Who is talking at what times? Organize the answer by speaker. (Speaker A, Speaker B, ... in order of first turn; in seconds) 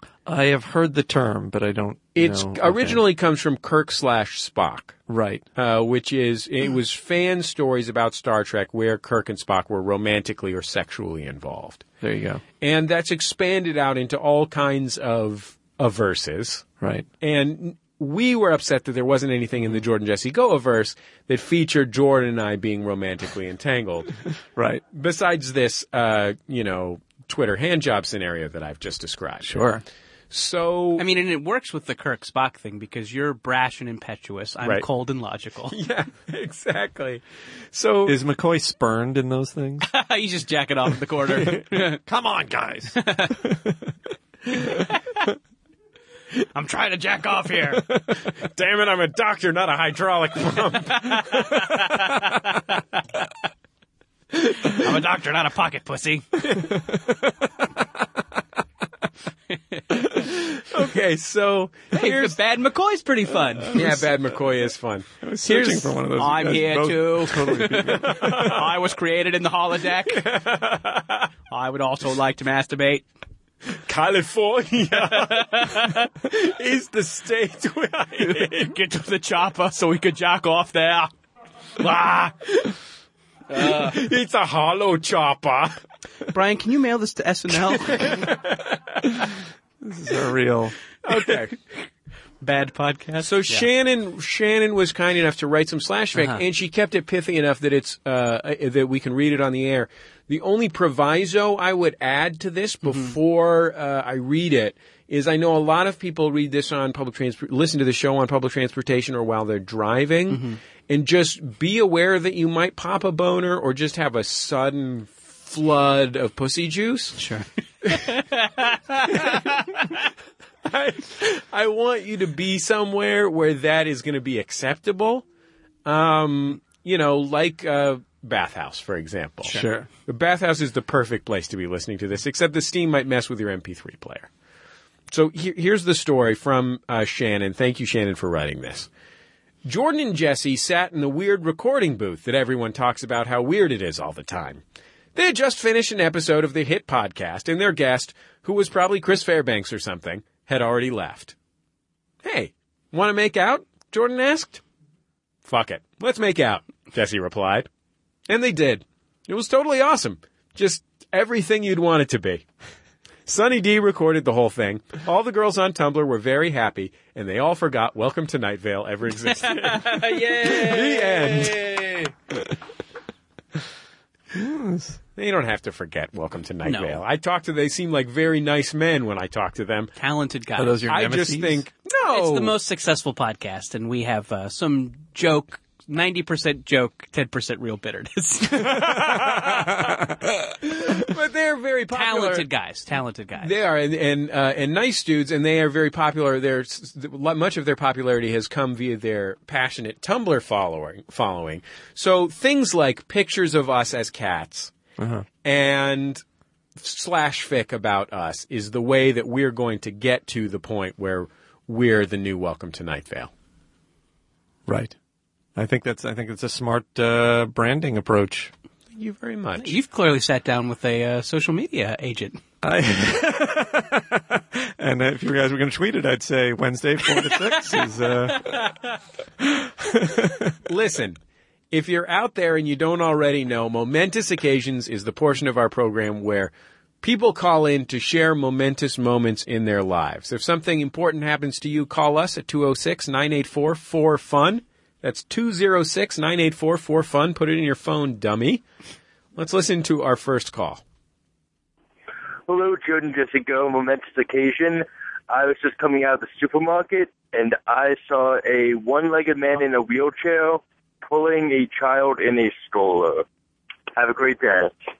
Speaker A: 0.2-3.0, 5.1-5.4, 12.0-12.4, 16.8-17.1, 24.6-24.8, 29.5-29.8, 38.1-39.9, 42.0-43.5, 65.2-68.5, 89.8-90.8, 129.5-129.9, 174.3-175.0, 180.6-181.6, 205.0-205.2, 214.7-214.9, 215.6-218.5, 222.6-228.7, 229.4-230.6
Speaker B: 2.1-5.0, 5.5-11.9, 12.6-16.6, 17.2-24.1, 24.9-29.7, 30.3-31.0, 35.7-38.2, 48.4-51.8, 56.5-56.9, 59.9-62.4, 63.7-65.9, 68.0-68.6, 70.1-71.3, 73.7-78.7, 82.3-82.7, 83.5-85.8, 87.9-89.0, 91.0-91.5, 93.2-117.2, 120.6-125.2, 125.8-134.3, 135.1-138.9, 139.6-144.6, 145.1-151.3, 152.2-154.6, 155.4-157.7, 158.3-162.4, 163.2-172.1, 175.2-179.9, 180.9-182.5, 188.5-190.0, 190.6-192.5, 193.4-204.7, 205.4-206.2, 206.8-213.3, 218.9-219.8, 230.6-231.2, 231.7-248.6, 249.3-250.8
Speaker C: 31.0-35.8, 39.9-42.0, 43.0-43.3, 46.5-47.8, 51.1-52.6, 54.6-56.4, 61.9-63.8, 66.1-70.2, 71.5-73.0, 75.1-76.1, 78.2-81.1, 81.8-82.3, 83.5-84.0, 86.3-88.3, 92.4-93.7, 96.1-96.4, 102.8-103.1, 110.3-110.6, 117.2-120.0, 169.3-171.7, 176.6-177.0, 179.9-180.8, 182.1-188.8, 191.9-193.5, 219.6-222.4
Speaker D: 252.5-263.2, 263.9-264.8